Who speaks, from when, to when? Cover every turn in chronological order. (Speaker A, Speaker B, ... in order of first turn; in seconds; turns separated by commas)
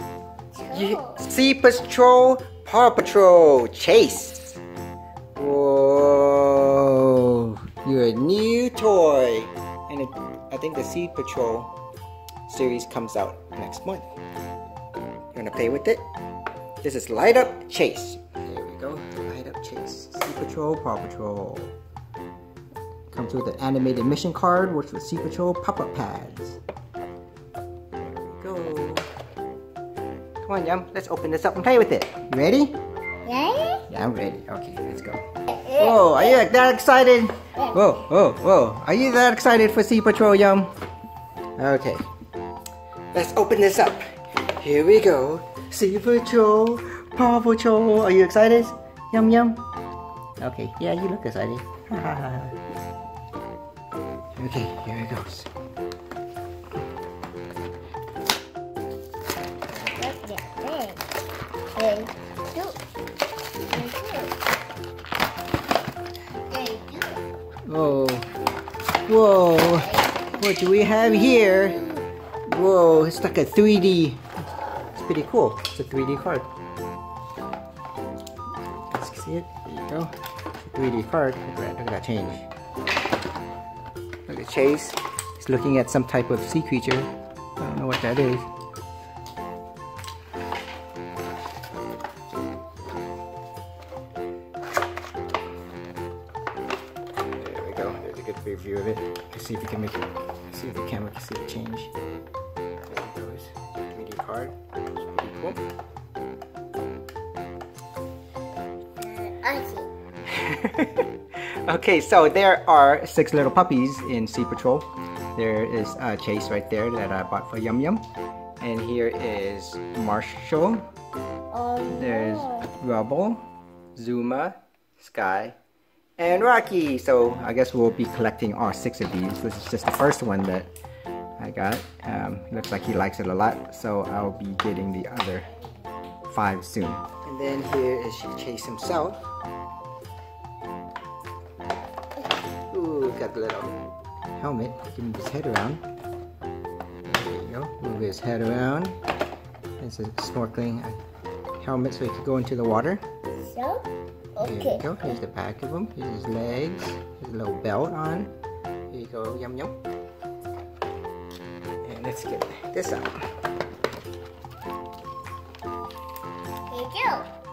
Speaker A: 0.5-1.2, Speaker B: 0.7-4.5, Speaker B: 5.4-11.7, Speaker B: 12.5-14.1, Speaker B: 15.3-16.1, Speaker B: 16.8-21.8, Speaker B: 23.1-26.6, Speaker B: 28.0-29.1, Speaker B: 30.4-32.8, Speaker A: 33.2-33.9, Speaker B: 33.9-40.7, Speaker A: 35.5-36.4, Speaker B: 41.6-42.1, Speaker B: 43.1-49.6, Speaker B: 50.4-52.6, Speaker B: 54.4-55.5, Speaker A: 59.7-61.2, Speaker A: 61.8-62.8, Speaker A: 63.7-64.4, Speaker A: 66.5-67.2, Speaker B: 67.7-68.3, Speaker B: 69.1-71.9, Speaker A: 69.8-72.1, Speaker B: 72.5-74.2, Speaker B: 74.9-76.5, Speaker B: 78.7-82.5, Speaker B: 84.3-88.5, Speaker B: 97.3-101.9, Speaker B: 102.9-105.6, Speaker A: 109.0-109.9, Speaker B: 110.2-111.1, Speaker B: 111.7-118.0, Speaker B: 118.6-120.8, Speaker A: 121.5-122.7, Speaker B: 121.9-123.5, Speaker B: 124.0-125.6, Speaker B: 126.2-130.7, Speaker B: 131.4-135.5, Speaker B: 136.3-139.2, Speaker B: 142.7-143.8, Speaker B: 144.4-145.8, Speaker B: 147.0-149.0, Speaker B: 149.8-150.9, Speaker B: 151.6-153.0, Speaker A: 153.4-155.1, Speaker B: 154.4-158.3, Speaker B: 158.9-159.8, Speaker B: 161.8-163.2, Speaker A: 166.7-167.3